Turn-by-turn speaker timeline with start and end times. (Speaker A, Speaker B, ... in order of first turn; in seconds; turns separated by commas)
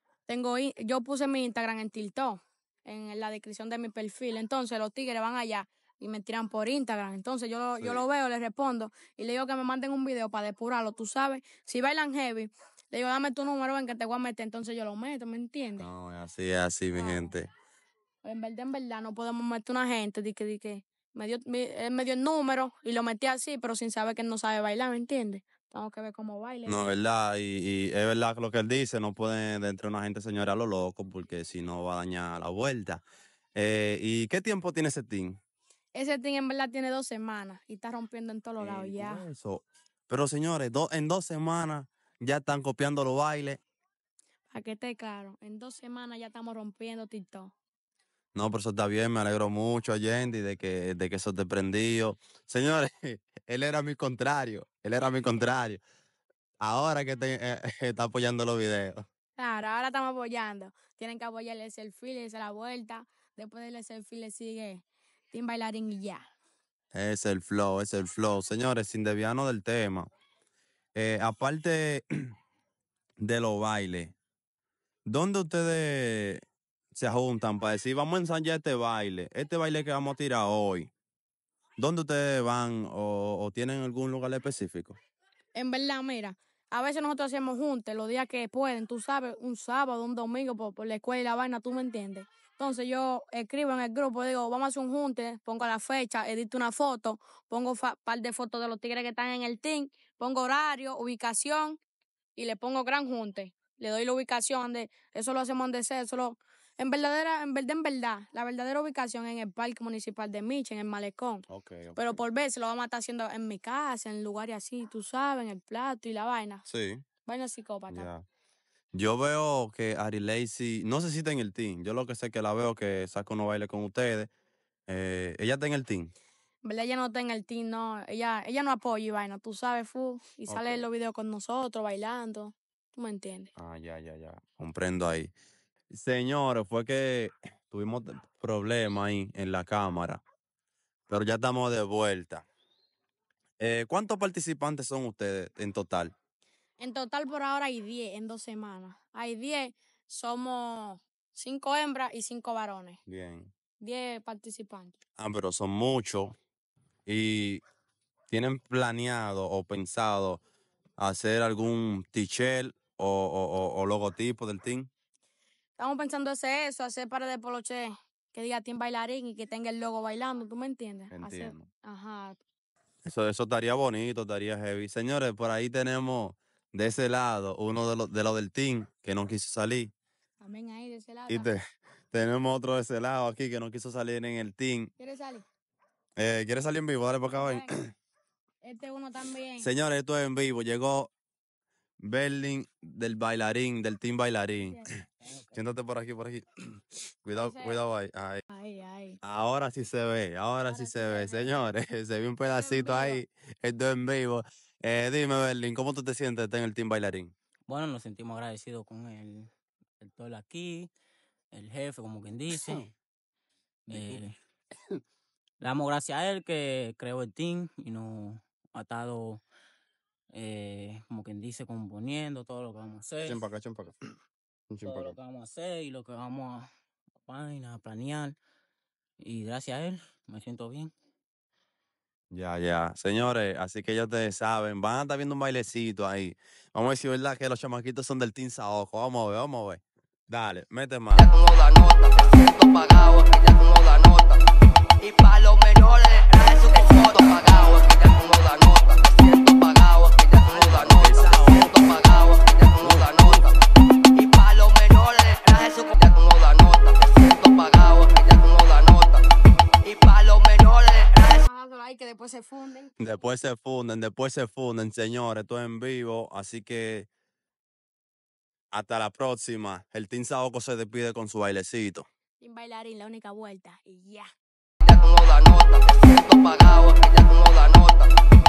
Speaker A: 0.3-15.9, Speaker B: 7.8-8.0, Speaker B: 15.8-17.5, Speaker A: 16.9-17.3, Speaker A: 18.2-26.9, Speaker B: 26.6-33.0, Speaker B: 33.5-35.4, Speaker A: 35.9-39.2, Speaker B: 38.6-43.6, Speaker A: 44.5-47.5, Speaker B: 48.3-55.8, Speaker B: 56.6-59.0, Speaker A: 59.4-66.3, Speaker B: 66.9-70.1, Speaker B: 71.0-72.3, Speaker B: 73.2-74.1, Speaker B: 75.1-76.4, Speaker B: 76.9-80.9, Speaker B: 81.8-85.0, Speaker A: 85.5-101.8, Speaker A: 102.3-116.6, Speaker B: 111.5-112.1, Speaker B: 116.7-117.0, Speaker A: 117.2-118.1, Speaker B: 117.9-118.2, Speaker B: 118.9-124.3, Speaker B: 124.9-126.1, Speaker A: 126.6-133.5, Speaker B: 130.5-130.8, Speaker B: 133.6-135.3, Speaker B: 135.9-140.2, Speaker B: 141.1-142.4, Speaker B: 143.6-146.1, Speaker A: 146.8-153.0, Speaker B: 153.1-153.5, Speaker A: 153.8-155.0, Speaker B: 155.2-156.3, Speaker B: 157.1-157.6, Speaker B: 158.3-160.4, Speaker B: 161.0-164.9, Speaker A: 165.8-172.4, Speaker B: 171.1-171.7, Speaker B: 173.0-179.9, Speaker A: 180.4-181.5, Speaker B: 181.3-184.9, Speaker A: 185.0-185.4, Speaker B: 186.2-187.9, Speaker A: 187.3-187.7, Speaker A: 188.6-189.7, Speaker B: 189.6-191.1, Speaker B: 192.0-194.8, Speaker C: 195.2-195.5, Speaker B: 195.5-196.4, Speaker B: 197.2-198.4, Speaker A: 197.3-197.8, Speaker A: 198.5-199.2, Speaker B: 199.2-207.3, Speaker A: 200.7-201.5, Speaker A: 202.5-203.2, Speaker C: 207.7-209.5, Speaker C: 210.0-210.9, Speaker C: 211.5-212.9, Speaker B: 212.5-212.8, Speaker C: 213.9-214.3, Speaker B: 213.9-214.2, Speaker C: 215.6-219.4, Speaker C: 220.3-223.4, Speaker B: 223.2-223.9, Speaker B: 224.7-225.1, Speaker C: 224.8-226.6, Speaker C: 227.2-228.3, Speaker C: 229.2-230.9, Speaker B: 232.3-241.3, Speaker D: 241.2-244.3, Speaker D: 245.0-253.3, Speaker B: 250.4-251.9, Speaker B: 252.8-253.5, Speaker D: 254.1-259.2, Speaker D: 259.8-261.3, Speaker A: 261.1-263.0, Speaker B: 263.0-267.1, Speaker B: 268.7-272.1, Speaker A: 272.4-274.3, Speaker D: 274.8-278.0